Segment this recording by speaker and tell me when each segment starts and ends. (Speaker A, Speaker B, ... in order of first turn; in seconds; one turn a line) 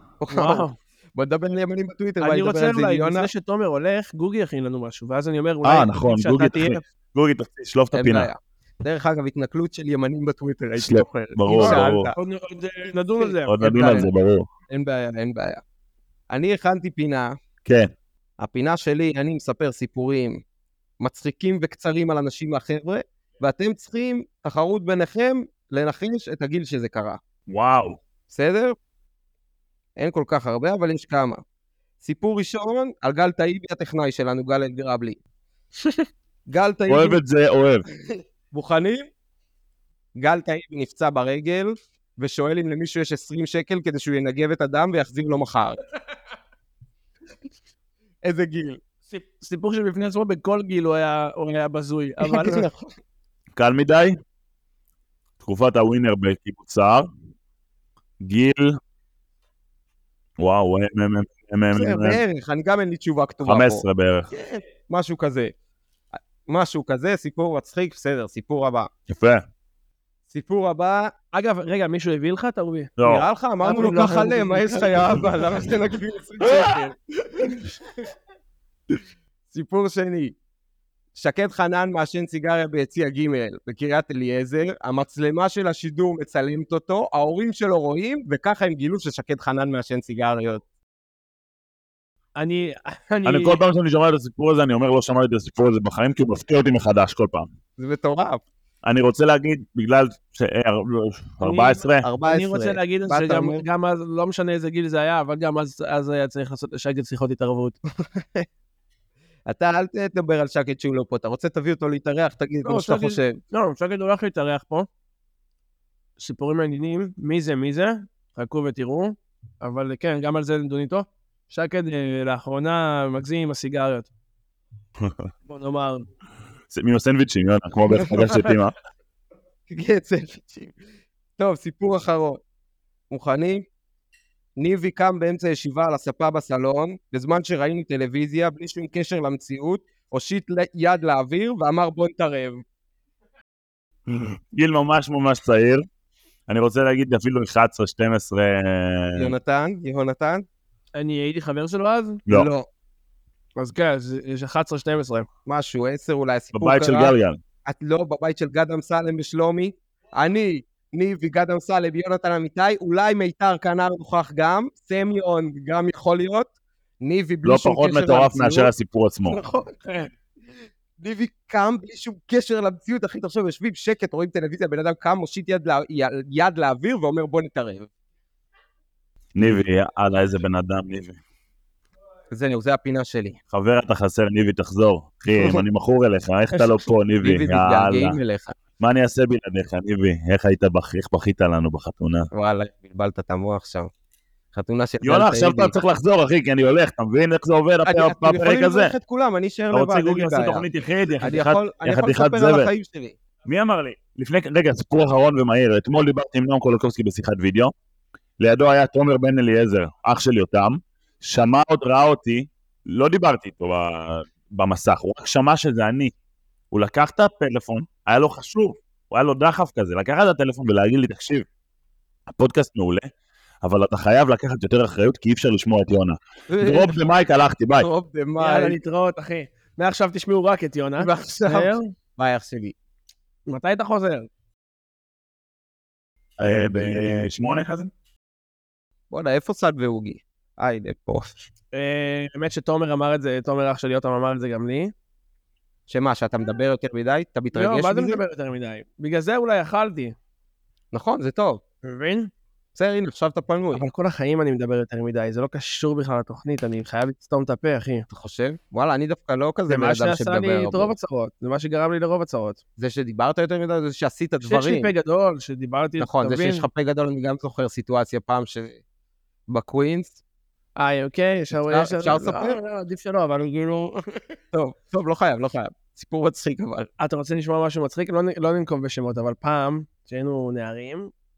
Speaker A: 0.2-3.3
Speaker B: 0.3-0.8
Speaker B: 2.2-6.8
Speaker C: 5.6-8.3
Speaker A: 7.9-12.2
Speaker C: 10.8-12.1
Speaker B: 11.5-14.0
Speaker A: 13.2-14.1
Speaker C: 13.5-14.5
Speaker A: 14.7-15.6
Speaker A: 16.3-17.3
Speaker C: 17.6-17.9
Speaker A: 18.4-20.4
Speaker A: 21.0-27.2
Speaker C: 27.5-28.0
Speaker A: 28.3-28.8
Speaker A: 30.0-31.4
Speaker A: 32.0-35.2
Speaker A: 36.5-37.2
Speaker C: 36.9-37.9
Speaker A: 38.5-39.1
Speaker A: 40.2-45.8
Speaker A: 48.2-48.8
Speaker B: 49.1-52.7
Speaker A: 52.2-52.9
Speaker C: 53.6-54.2
Speaker C: 55.4-57.1
Speaker C: 58.2-58.8
Speaker C: 60.4-62.2
Speaker A: 61.7-65.5
Speaker C: 63.5-64.3
Speaker A: 66.5-68.9
Speaker C: 69.1-69.5
Speaker A: 70.3-71.1
Speaker B: 71.3-72.9
Speaker C: 73.0-73.2
Speaker A: 73.0-77.8
Speaker B: 73.6-75.2
Speaker A: 79.5-80.3
Speaker A: 81.2-90.6
Speaker B: 92.4-93.6
Speaker C: 93.2-97.5
Speaker A: 97.8-98.4
Speaker C: 98.8-102.1
Speaker B: 101.4-107.8
Speaker A: 102.0-103.7
Speaker A: 108.0-108.5
Speaker A: 109.5-113.4
Speaker B: 112.7-114.9
Speaker B: 116.2-124.1
Speaker B: 125.5-126.1
Speaker C: 126.7-128.8
Speaker A: 127.9-128.4
Speaker A: 129.7-130.7
Speaker A: 131.4-132.4
Speaker A: 133.1-133.7
Speaker A: 134.6-142.6
Speaker C: 144.1-145.8
Speaker C: 146.5-149.3
Speaker A: 149.2-150.4
Speaker B: 151.0-152.2
Speaker A: 152.3-152.7
Speaker B: 153.6-155.3
Speaker A: 155.5-166.5
Speaker C: 156.5-157.4
Speaker A: 167.0-168.7
Speaker C: 167.4-169.4
Speaker A: 169.3-169.6
Speaker B: 169.6-170.1
Speaker A: 171.0-177.9
Speaker C: 179.3-181.2
Speaker A: 182.3-183.4
Speaker C: 183.5-188.2
Speaker A: 185.4-185.6
Speaker A: 186.5-188.6
Speaker C: 188.8-192.3
Speaker A: 192.3-193.9
Speaker A: 194.5-195.7
Speaker C: 195.0-198.9
Speaker A: 197.9-200.7
Speaker C: 199.7-202.7
Speaker A: 201.2-203.2
Speaker C: 203.5-207.7
Speaker C: 208.4-216.1
Speaker C: 216.7-221.5
Speaker C: 222.3-223.1
Speaker C: 223.6-227.9
Speaker A: 226.5-227.0
Speaker A: 227.8-228.8
Speaker B: 228.4-231.9
Speaker A: 231.0-232.8
Speaker B: 233.5-234.3
Speaker C: 236.4-237.9
Speaker A: 239.1-241.4
Speaker B: 241.7-244.9
Speaker A: 245.9-248.2
Speaker B: 247.5-250.2
Speaker A: 250.9-251.6
Speaker B: 251.8-252.3
Speaker A: 252.8-253.8
Speaker B: 253.7-258.1
Speaker A: 258.1-260.9
Speaker B: 259.7-262.6
Speaker A: 262.8-264.9
Speaker B: 264.4-266.7
Speaker A: 266.0-268.8
Speaker A: 269.5-270.2
Speaker B: 270.8-274.4
Speaker A: 271.6-272.6
Speaker A: 274.5-276.9
Speaker B: 277.0-281.1